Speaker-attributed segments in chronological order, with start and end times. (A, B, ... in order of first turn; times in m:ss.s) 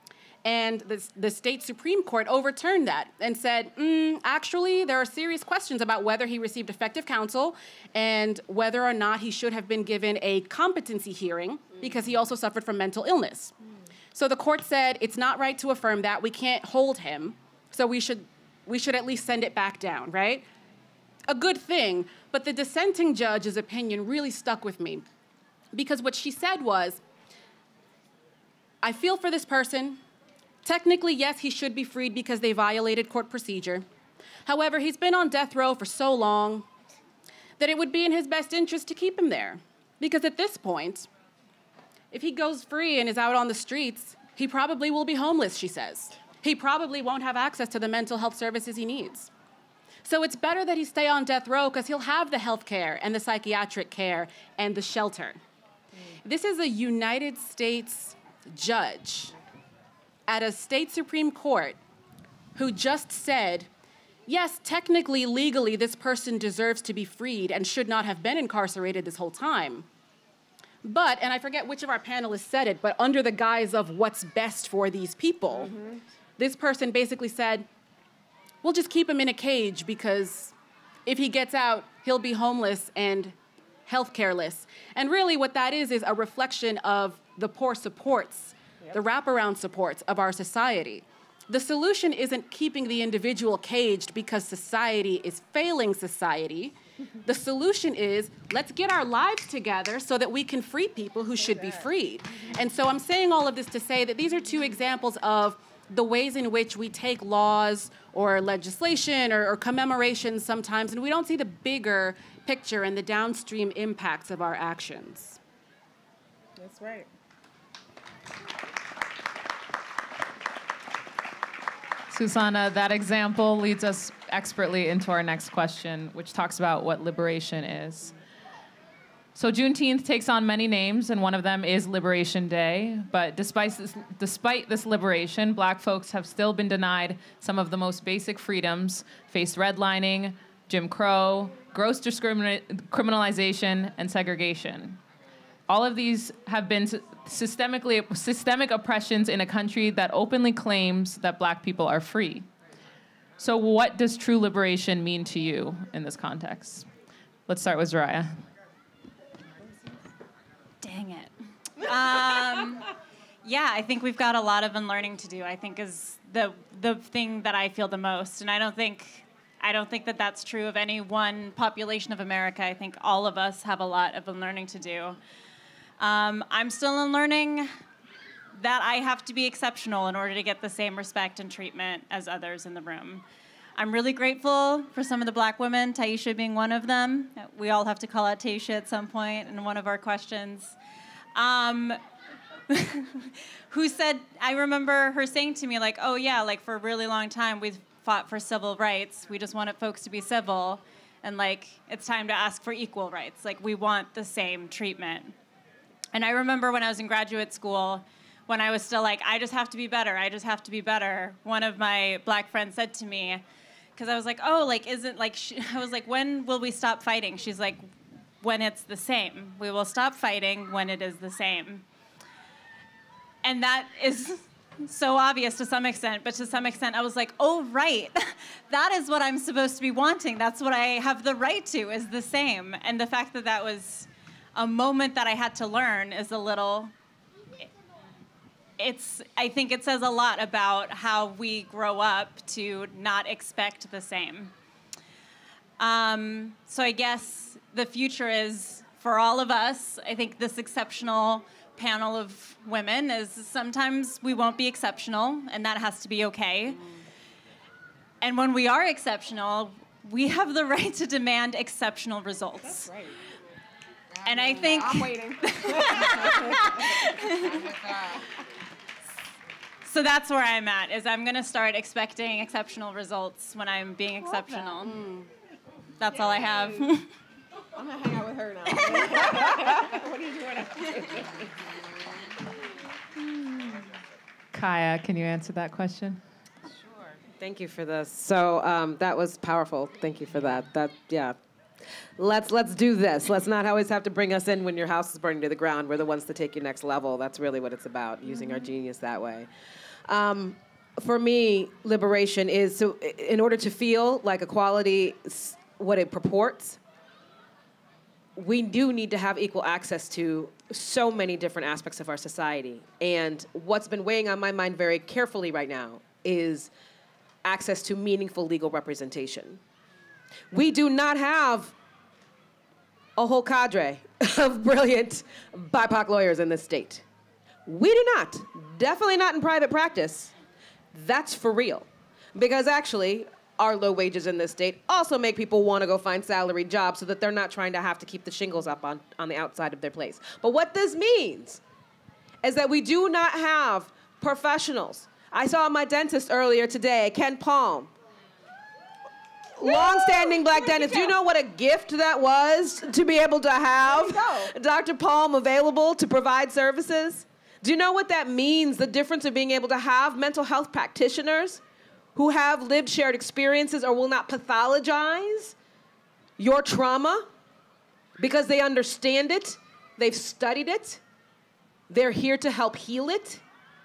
0:00.4-0:13.5 A
0:14.1-0:20.5 A
0:21.3-0:25.0 A
0:25.7-0:27.0 A
0:28.8-0:30.0 A
0:30.6-0:33.8 A
0:34.5-0:36.7 A
0:37.6-0:41.1 A
0:42.1-0:49.3 A
0:50.0-0:55.4 A
0:56.2-0:59.4 A
1:00.3-1:01.8 A
1:02.6-1:03.7 A
1:04.3-1:09.9 A
1:10.8-1:15.8 A
1:16.4-1:17.7 A
1:18.6-1:20.6 A
1:21.1-1:55.4 A
1:56.6-1:57.1 B
2:02.1-2:08.1 C
2:09.4-2:25.0 C
2:25.7-2:32.5 C
2:33.4-2:36.9 C
2:37.5-2:38.4 C
2:40.8-2:55.2 D
2:56.0-2:57.7 D
2:58.6-3:03.2 D
3:03.8-3:10.8 D
3:11.4-3:12.0 D
3:12.7-3:25.4 D
3:26.1-3:33.4 D
3:34.0-3:37.8 D
3:38.4-3:41.8 D
3:43.4-3:56.9 D
3:58.8-4:04.5 D
4:05.8-4:16.8 D
4:18.2-4:22.9 D
4:22.7-4:23.1 B
4:24.2-4:27.8 D
4:24.7-4:26.8 B
4:29.8-4:35.0 D
4:34.9-4:35.3 A
4:36.0-4:37.1 D
4:37.8-4:41.5 B
4:44.5-4:46.2 C
4:47.4-4:51.4 E
4:52.2-4:59.5 E
5:00.1-5:06.8 E
5:08.4-5:16.7 E
5:17.4-5:19.6 E
5:20.5-5:21.8 E
5:23.2-5:27.0 E
5:27.7-5:30.3 E
5:30.9-5:41.6 E
5:42.4-5:47.9 E
5:49.6-6:01.6 E
5:49.7-5:51.1 B
5:53.8-5:54.5 B
6:02.2-6:05.6 E
6:06.4-6:07.3 E
6:08.2-6:11.0 E
6:11.9-6:13.4 E